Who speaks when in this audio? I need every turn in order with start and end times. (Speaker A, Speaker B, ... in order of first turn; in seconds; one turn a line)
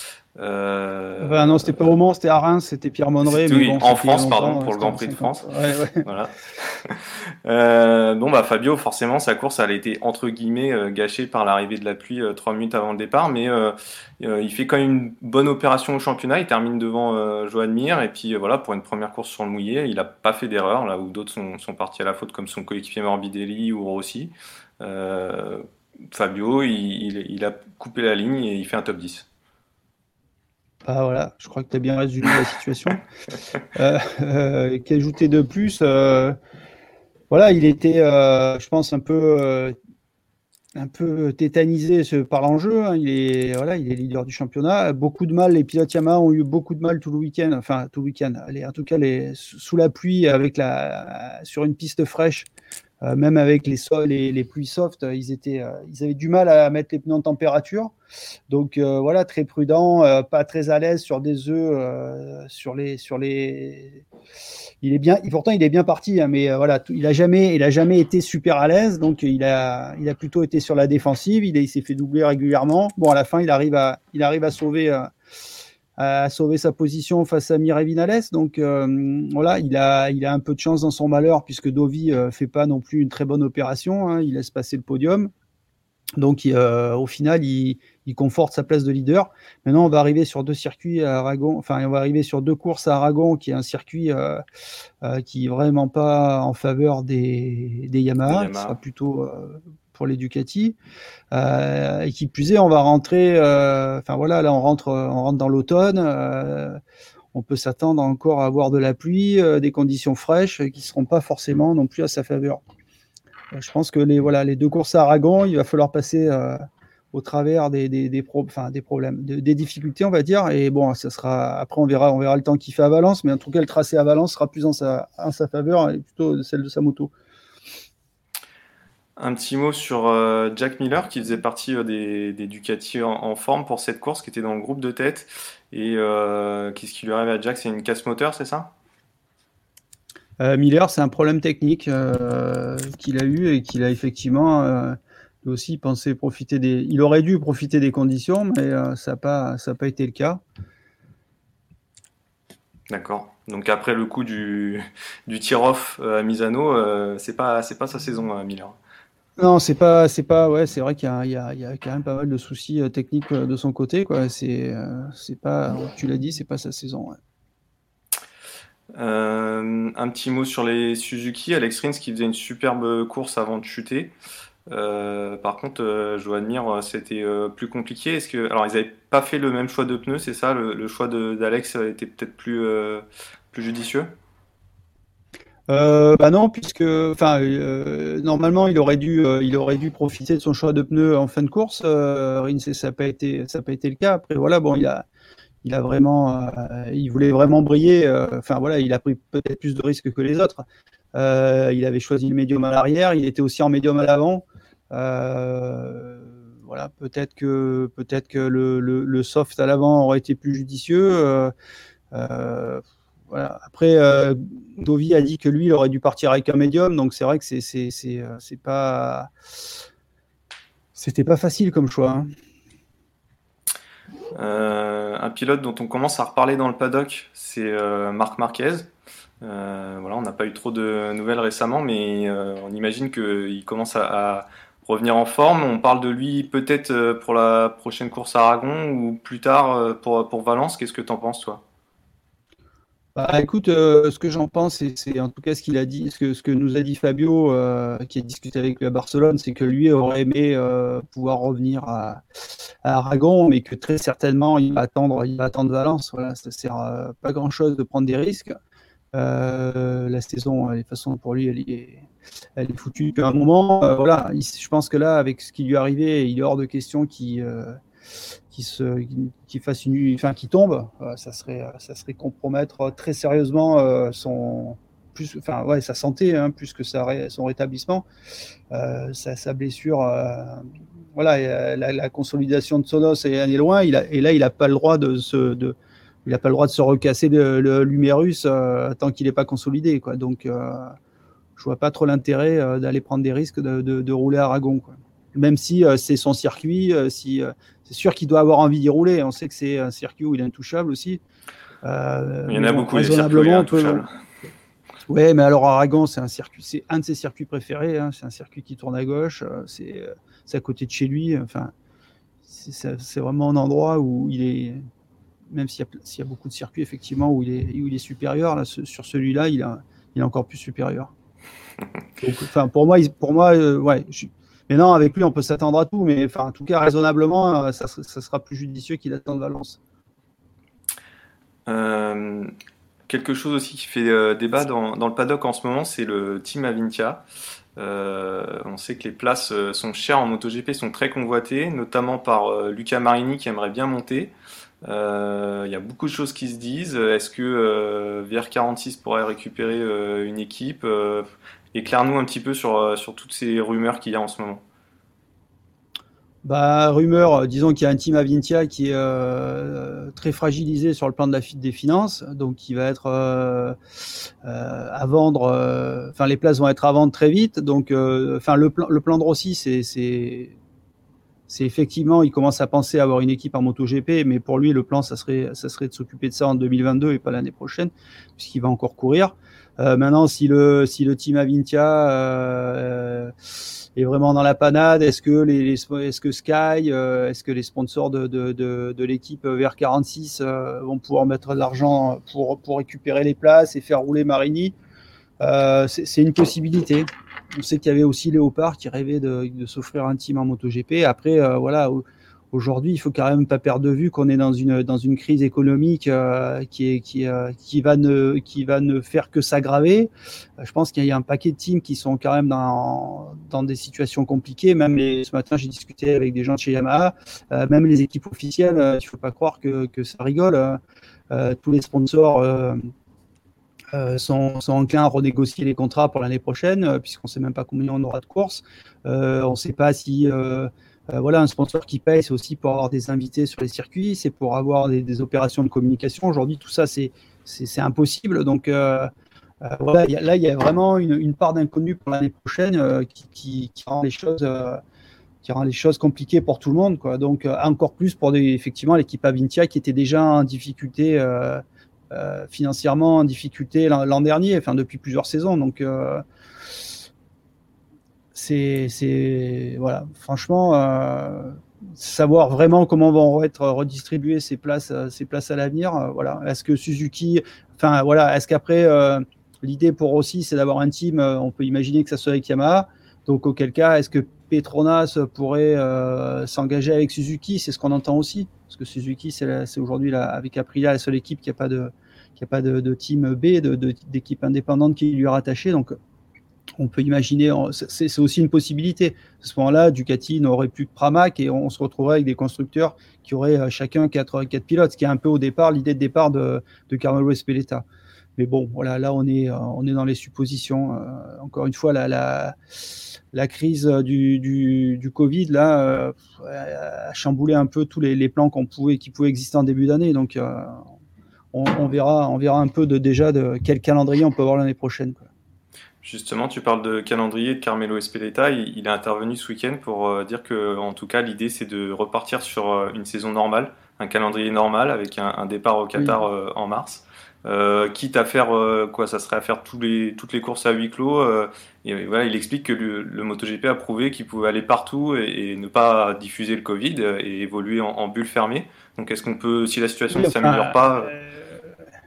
Speaker A: 0.4-1.6
Speaker B: 1.2-6.0
Speaker A: 3.2-5.5
Speaker A: 6.0-29.3
Speaker B: 30.9-33.0
Speaker B: 33.7-36.4
Speaker B: 37.3-39.8
Speaker B: 40.8-52.5
Speaker B: 53.0-57.9
Speaker B: 58.5-64.0
Speaker B: 64.8-75.1
Speaker B: 76.0-85.3
Speaker B: 86.2-94.4
Speaker B: 95.0-100.8
Speaker A: 98.2-98.8
Speaker B: 101.3-106.8
Speaker B: 107.3-112.6
Speaker B: 113.5-116.6
Speaker B: 117.1-127.1
Speaker A: 129.2-138.7
Speaker B: 140.4-150.4
Speaker A: 152.9-158.8
Speaker B: 159.4-167.2
Speaker A: 168.9-174.1
Speaker A: 174.7-184.1
Speaker B: 185.7-195.1
Speaker B: 195.6-211.5
Speaker B: 212.1-219.3
Speaker B: 220.9-222.3
Speaker A: 224.3-228.9
Speaker A: 229.4-241.6
Speaker B: 243.2-252.2
Speaker B: 252.8-258.5
Speaker B: 259.1-262.1
Speaker B: 262.6-267.8
Speaker B: 268.5-278.1
Speaker B: 278.7-290.9
Speaker B: 291.6-301.2
Speaker B: 301.8-304.0
Speaker A: 302.5-304.1
Speaker B: 305.1-311.7
Speaker B: 312.5-314.8
Speaker B: 315.5-321.1
Speaker B: 322.2-329.8
Speaker A: 331.7-332.5
Speaker A: 333.1-337.2
Speaker A: 337.8-344.3
Speaker A: 344.9-354.6
Speaker B: 356.4-363.8
Speaker B: 364.4-370.6
Speaker B: 371.5-383.3
Speaker B: 384.0-394.8
Speaker B: 395.4-420.8
Speaker B: 421.3-422.8
Speaker B: 423.9-439.1
Speaker B: 439.6-444.8
Speaker B: 445.4-456.2
Speaker B: 458.3-485.9
Speaker B: 486.8-497.9
Speaker B: 498.4-502.6
Speaker B: 503.3-510.8
Speaker B: 511.5-515.3
Speaker A: 516.0-541.1
Speaker B: 540.1-541.4